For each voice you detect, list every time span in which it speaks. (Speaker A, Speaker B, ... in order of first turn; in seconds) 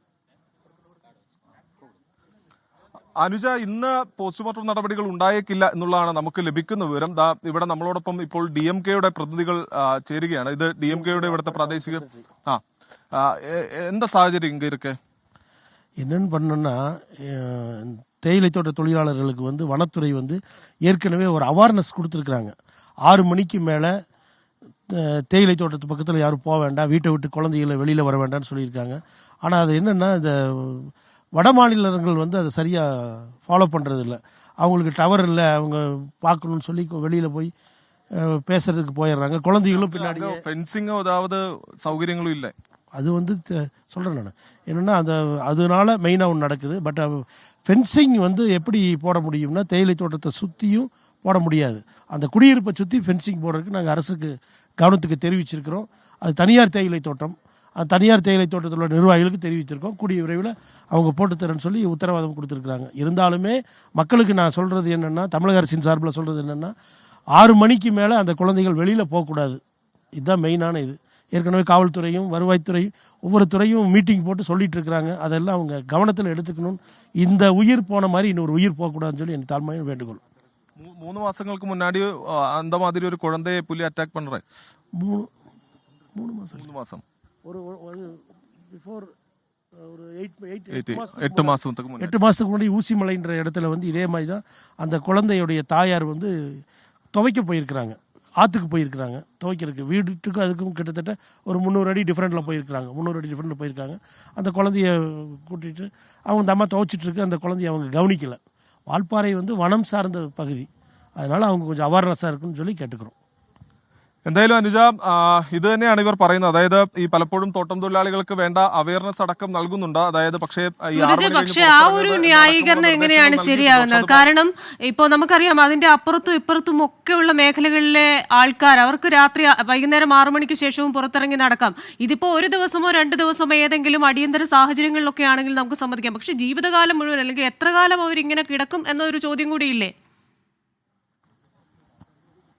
Speaker A: 3.2-12.6, 13.1-15.0, 39.7-42.5, 80.8-84.4, 86.5-87.0, 90.7-92.1, 114.2-124.3
Speaker B: 10.9-11.9, 16.0-22.5, 23.1-23.9, 24.9-37.5, 38.2-40.4, 42.9-66.7, 67.3-69.6, 70.2-80.2, 85.0-85.3, 86.2-86.7, 87.4-89.1, 89.8-96.3, 97.1-108.4, 108.9-110.7, 111.2-113.1
Speaker C: 120.9-139.9